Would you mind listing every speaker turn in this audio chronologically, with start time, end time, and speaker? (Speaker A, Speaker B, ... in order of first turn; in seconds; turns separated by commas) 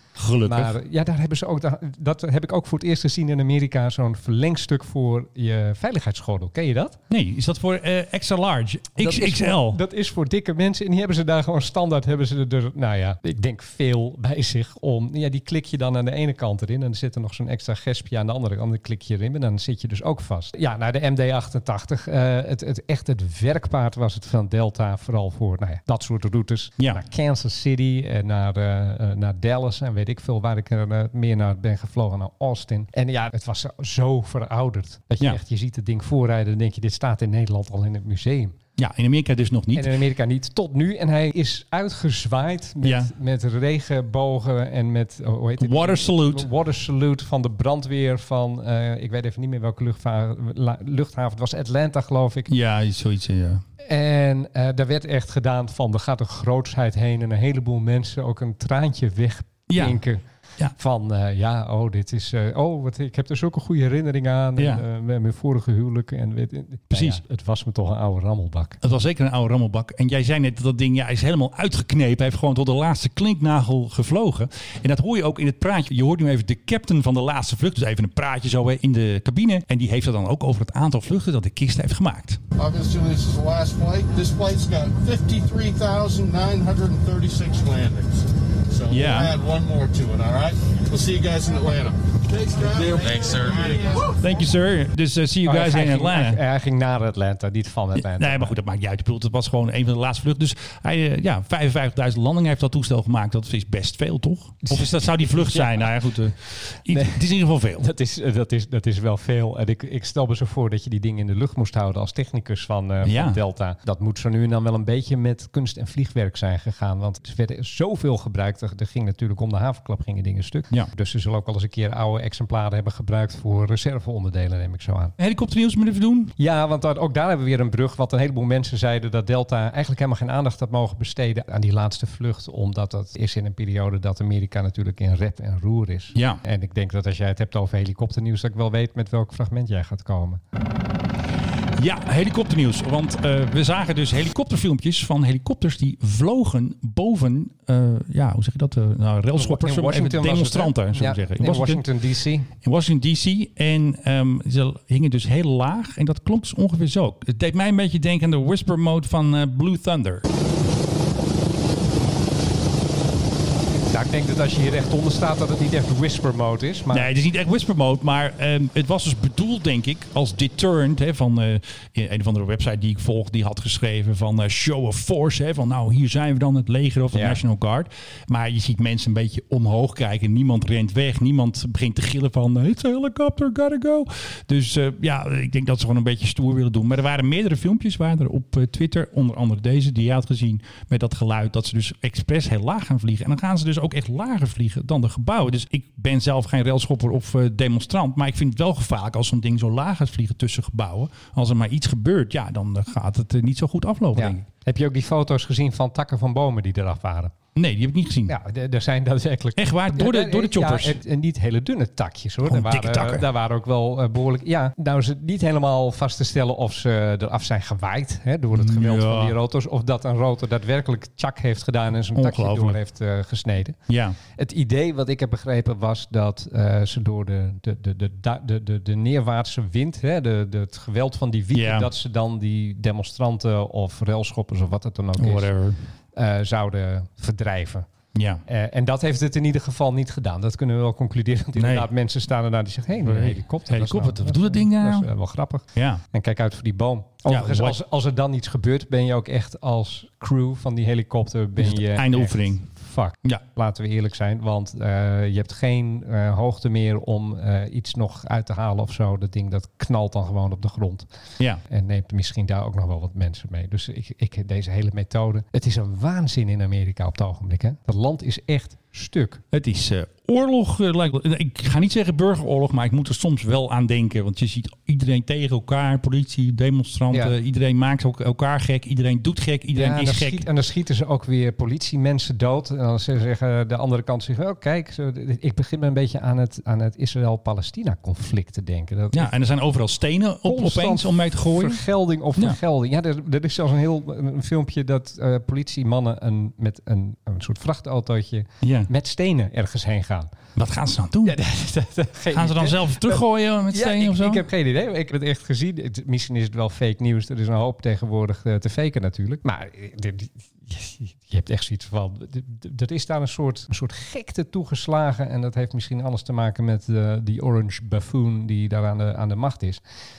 Speaker A: 0.1-0.8, Speaker B: 0.4-7.0, Speaker A: 7.1-9.8, Speaker B: 9.0-38.6, Speaker A: 38.8-39.9, Speaker B: 39.7-52.5, Speaker A: 42.8-43.1, Speaker A: 45.6-46.5, Speaker A: 52.5-53.6, Speaker B: 53.8-68.8, Speaker A: 59.7-60.0, Speaker A: 64.6-64.8, Speaker A: 66.9-67.2, Speaker A: 68.8-82.4, Speaker C: 82.6-94.1, Speaker A: 88.9-89.4, Speaker A: 94.2-96.4, Speaker B: 95.5-98.6, Speaker A: 98.0-107.9, Speaker B: 104.6-107.2, Speaker B: 107.8-125.1, Speaker A: 113.0-113.4, Speaker A: 125.2-126.3, Speaker B: 126.4-140.4, Speaker A: 136.1-136.4, Speaker A: 141.8-151.8, Speaker B: 149.4-152.5, Speaker A: 152.6-160.2, Speaker B: 163.8-167.1, Speaker A: 166.9-204.4, Speaker B: 177.1-177.4, Speaker B: 204.1-207.3, Speaker A: 207.6-208.3, Speaker B: 208.3-235.5, Speaker A: 209.6-211.0, Speaker A: 212.4-213.3, Speaker A: 218.5-219.3, Speaker A: 222.1-222.8, Speaker A: 223.9-224.2, Speaker A: 231.5-231.9, Speaker A: 235.2-235.8, Speaker B: 236.1-237.9, Speaker A: 238.1-238.4, Speaker B: 238.5-261.1, Speaker A: 241.6-241.9, Speaker A: 243.1-245.1, Speaker A: 245.7-246.0, Speaker A: 247.3-247.8, Speaker A: 251.6-253.4, Speaker B: 261.6-269.4, Speaker A: 269.5-280.5, Speaker B: 279.7-289.4, Speaker A: 289.1-291.9, Speaker B: 290.5-300.3, Speaker A: 298.6-298.9, Speaker A: 300.6-301.4, Speaker B: 301.2-319.8, Speaker A: 302.3-304.4